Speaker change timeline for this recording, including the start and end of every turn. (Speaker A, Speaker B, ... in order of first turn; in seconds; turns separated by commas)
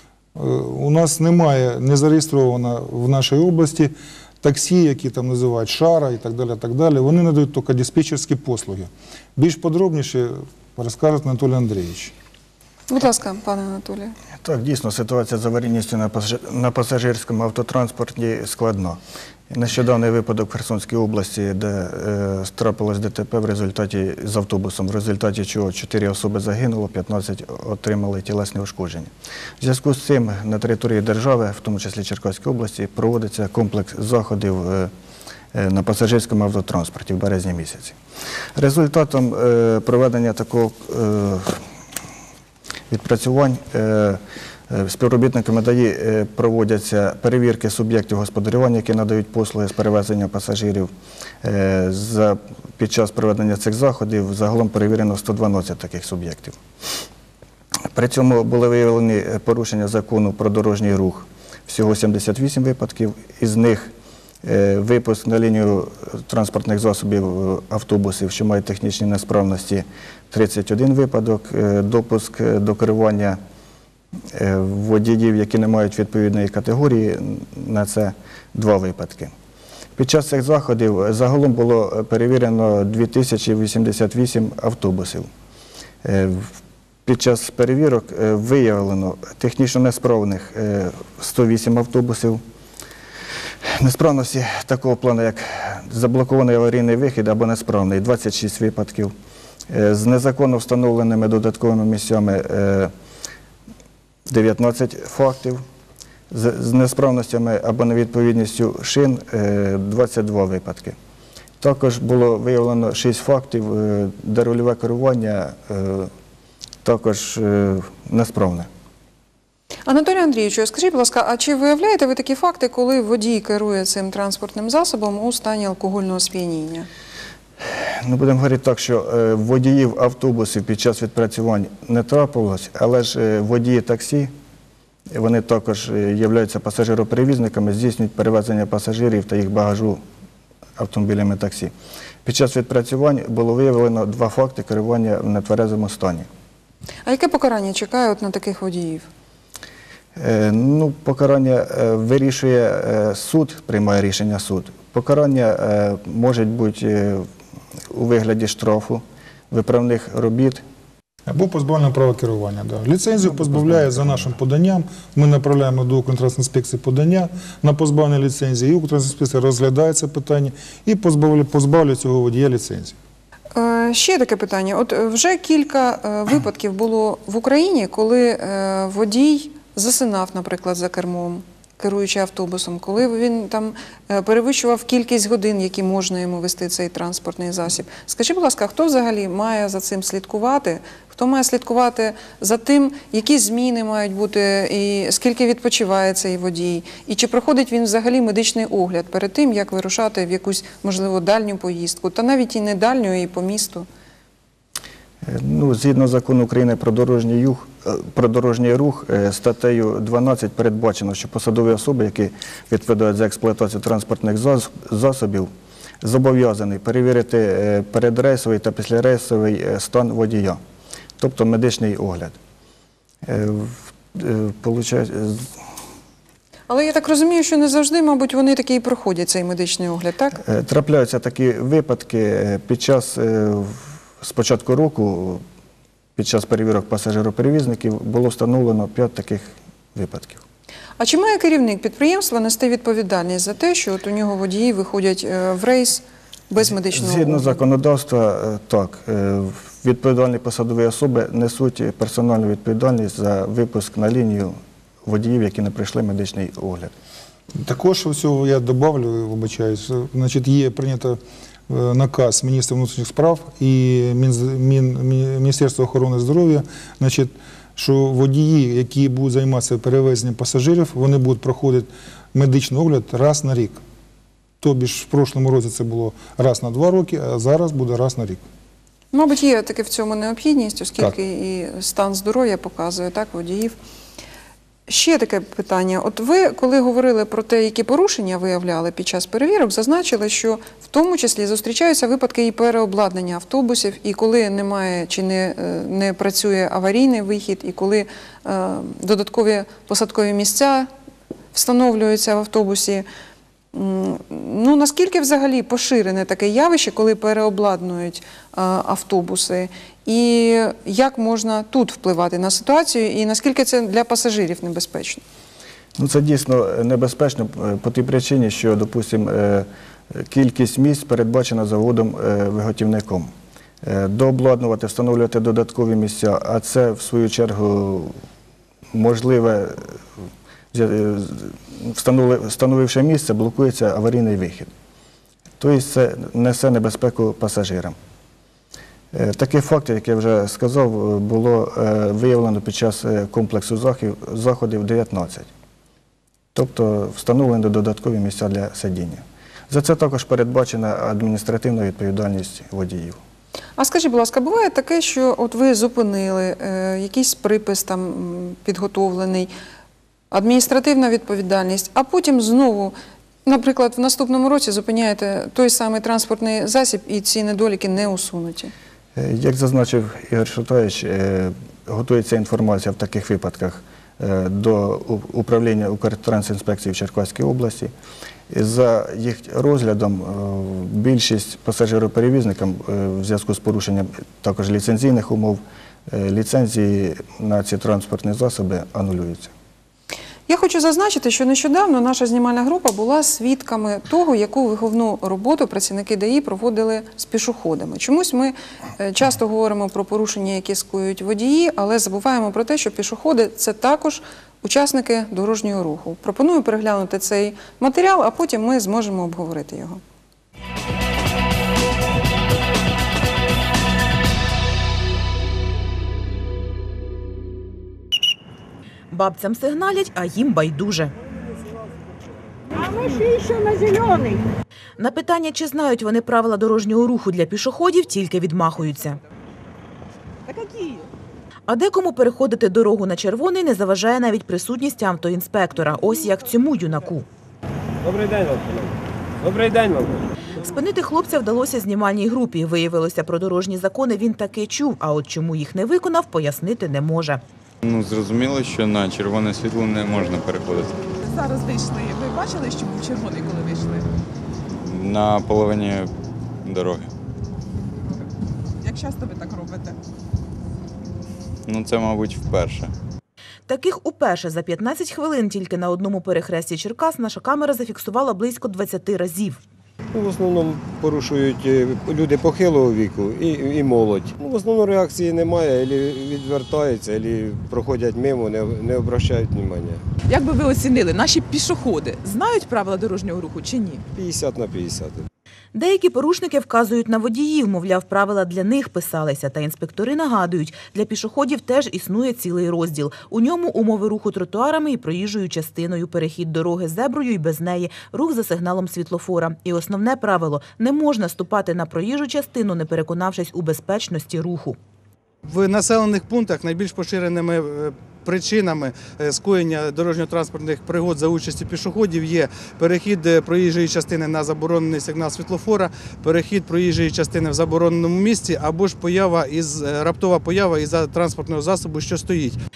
Speaker A: 0.3-12.1, Speaker B: 12.9-14.1, Speaker C: 14.4-19.0, Speaker C: 19.5-34.9, Speaker C: 35.5-38.0, Speaker C: 38.5-41.6, Speaker C: 42.9-50.9, Speaker C: 51.4-56.6, Speaker C: 57.9-73.4, Speaker C: 74.3-79.3, Speaker C: 80.0-85.3, Speaker C: 86.0-92.4, Speaker C: 93.7-99.1, Speaker C: 99.7-102.9, Speaker C: 104.3-105.6, Speaker C: 106.3-111.0, Speaker C: 111.6-116.1, Speaker C: 116.8-118.7, Speaker B: 119.8-126.9, Speaker C: 127.9-134.3, Speaker C: 135.1-140.0, Speaker C: 140.8-146.3, Speaker B: 147.1-149.1, Speaker C: 150.2-157.3, Speaker C: 157.9-160.6, Speaker A: 161.3-172.9, Speaker B: 173.6-203.8, Speaker C: 205.2-215.5, Speaker C: 216.0-220.6, Speaker C: 221.2-222.3, Speaker C: 223.2-225.6, Speaker B: 226.7-230.4, Speaker C: 230.4-235.4, Speaker C: 236.2-240.4, Speaker B: 241.0-247.6, Speaker C: 246.7-256.9, Speaker A: 257.6-273.8, Speaker A: 274.6-278.4, Speaker B: 279.1-283.8, Speaker B: 284.9-300.9, Speaker B: 301.5-303.1, Speaker B: 303.7-315.2, Speaker C: 316.0-328.2, Speaker C: 328.9-330.0, Speaker C: 330.7-334.7, Speaker C: 335.6-338.0, Speaker C: 339.1-345.5, Speaker C: 346.5-353.2, Speaker B: 353.8-359.5, Speaker B: 360.3-362.9, Speaker B: 363.4-368.7, Speaker C: 369.1-377.9, Speaker C: 378.5-389.5, Speaker B: 390.5-410.0, Speaker D: 419.1-421.1, Speaker E: 422.8-424.3, Speaker D: 425.0-429.2, Speaker E: 430.5-431.1, Speaker D: 431.7-437.2, Speaker F: 438.0-440.3, Speaker D: 440.6-447.4, Speaker G: 447.8-451.0, Speaker E: 451.2-454.1, Speaker G: 454.7-456.1, Speaker G: 456.6-457.1, Speaker E: 458.8-460.0, Speaker G: 461.7-462.9, Speaker D: 463.7-469.6, Speaker F: 470.1-480.1, Speaker E: 480.2-484.1, Speaker F: 484.1-485.3, Speaker D: 485.7-504.8, Speaker H: 505.4-522.6